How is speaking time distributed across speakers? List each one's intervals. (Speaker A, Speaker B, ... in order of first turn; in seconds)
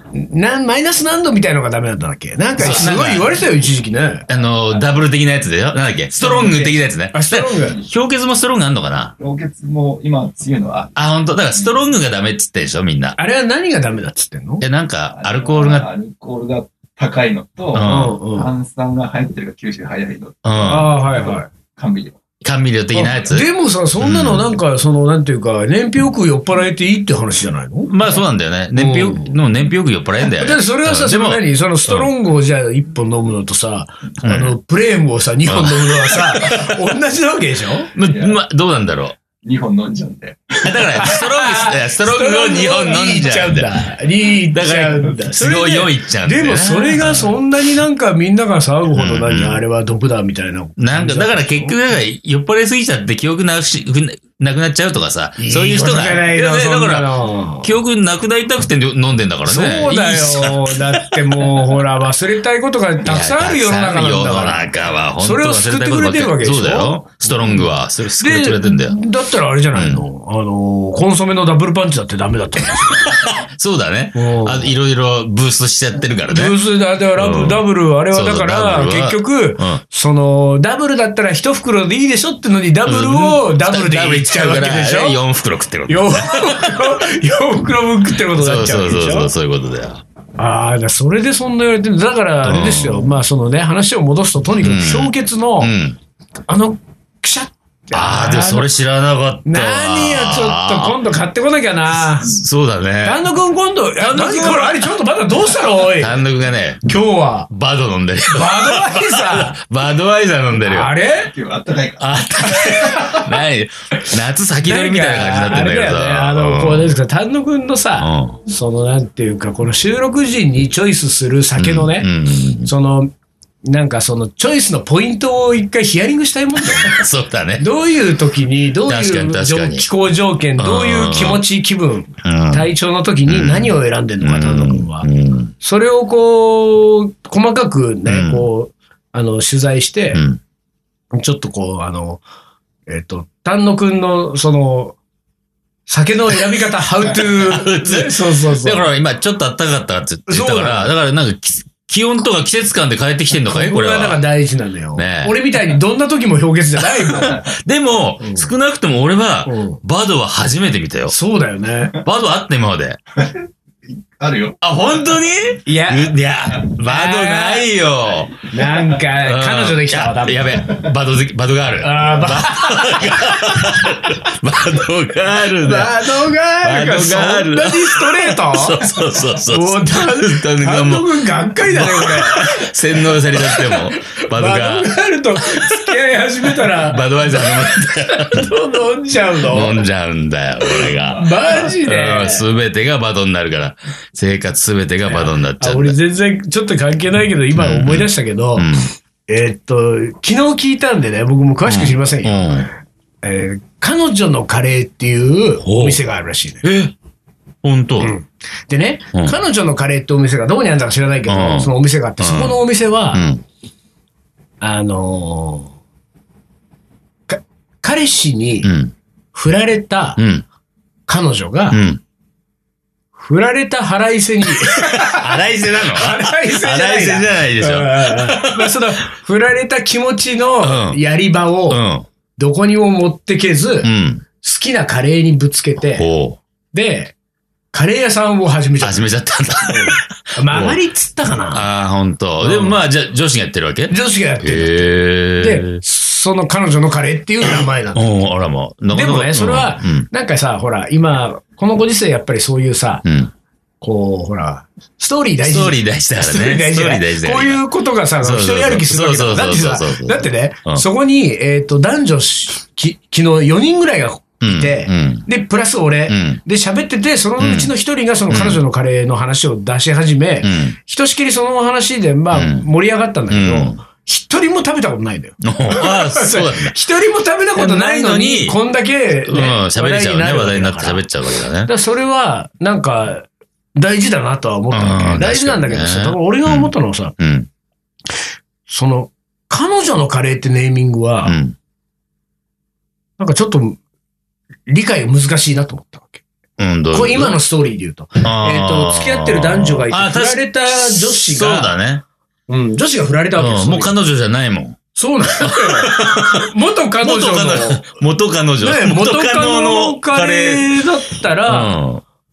Speaker A: 0.1-4.3, 6.1-7.8, 13.2-14.7, 17.8-18.5, 20.6-21.5, 22.9-27.9, 28.7-29.4, 30.3-37.9, 41.0-51.7, 55.4-57.7, 59.5-73.1, 74.2-74.8, 76.3-85.2, 85.9-89.3, 90.4-95.7, 96.5-98.7, 99.5-102.3, 103.0-106.2, 106.8-107.5, 108.3-109.6, 110.6-111.3, 112.4-113.3, 114.6-122.1, 122.6-123.1, 123.7-127.0, 127.6-135.1, 135.6-140.2, 141.1-142.2, 142.9-145.0, 145.9-148.9, 150.3-150.9, 153.4-157.4, 158.2-158.5, 159.5-159.8, 161.1-161.9, 165.7-166.2, 166.8-167.7, 168.5-170.8, 171.8-174.0, 175.6-178.8, 179.4-189.8, 190.6-192.5, 195.1-198.7, 199.3-202.7, 203.2-206.7, 208.0-213.3, 214.6-215.7, 217.3-218.7, 219.3-220.2, 221.1-221.8, 223.2-231.8, 232.4-236.1, 236.7-237.2, 237.7-239.1, 239.6-241.7, 242.4-242.8, 243.9-248.0, 248.9-253.1, 253.8-281.0, 281.7-287.1, 288.7-291.4, 293.2-293.8, 294.7-296.2, 296.9-301.7, 302.5-303.9, 304.9-307.8, 308.6-311.8
Speaker B: 2.6-3.4, 4.3-9.2, 10.9-13.2, 14.6-15.9, 17.7-18.2, 20.4-20.9, 22.4-23.5, 24.0-24.5, 27.9-32.1, 34.2-34.5, 35.5-36.8, 38.0-39.2, 40.6-43.7, 44.5-47.4, 48.9-49.6, 50.8-61.8, 63.0-69.0, 69.7-70.0, 72.9-76.6, 77.2-79.8, 82.9-87.0, 88.3-90.0, 92.4-93.1, 94.6-96.0, 97.9-101.0, 102.0-103.2, 104.0-104.9, 105.7-106.8, 107.5-110.9, 112.0-117.0, 118.0-118.4, 121.6-122.7, 126.8-127.7, 128.9-129.8, 130.6-131.4, 132.2-132.7, 133.3-135.5, 138.1-138.5, 140.1-140.4, 147.1-154.2, 155.0-155.6, 156.8-161.2, 162.0-163.0, 164.6-168.5, 169.2-188.6, 189.4-196.0, 197.6-198.9, 201.7-202.7, 205.6-206.0, 206.6-206.9, 207.6-208.1, 211.3-212.6, 213.1-213.4, 218.6-218.9, 220.2-220.4, 221.7-222.0, 224.6-228.7, 230.6-231.0, 231.7-232.1, 233.8-234.2, 235.9-236.4, 238.8-240.8, 241.5-245.8, 247.9-250.1, 253.0-253.3, 255.4-257.6, 258.2-260.8, 264.4-265.3, 266.1-266.4, 267.4-267.7, 268.3-268.6, 270.4-270.8, 272.3-272.7, 273.3-273.8, 275.4-276.8, 277.6-278.6, 279.2-281.7, 284.7-287.5, 291.2-291.6, 296.6-297.4, 298.2-302.0, 303.4-304.8, 305.4-306.5, 307.0-310.8, 311.5-312.0
Speaker C: 4.4-5.0, 7.6-7.9, 9.2-11.0, 11.5-11.8, 15.1-22.2, 38.0-38.4, 39.4-41.2, 111.2-112.2, 164.2-164.6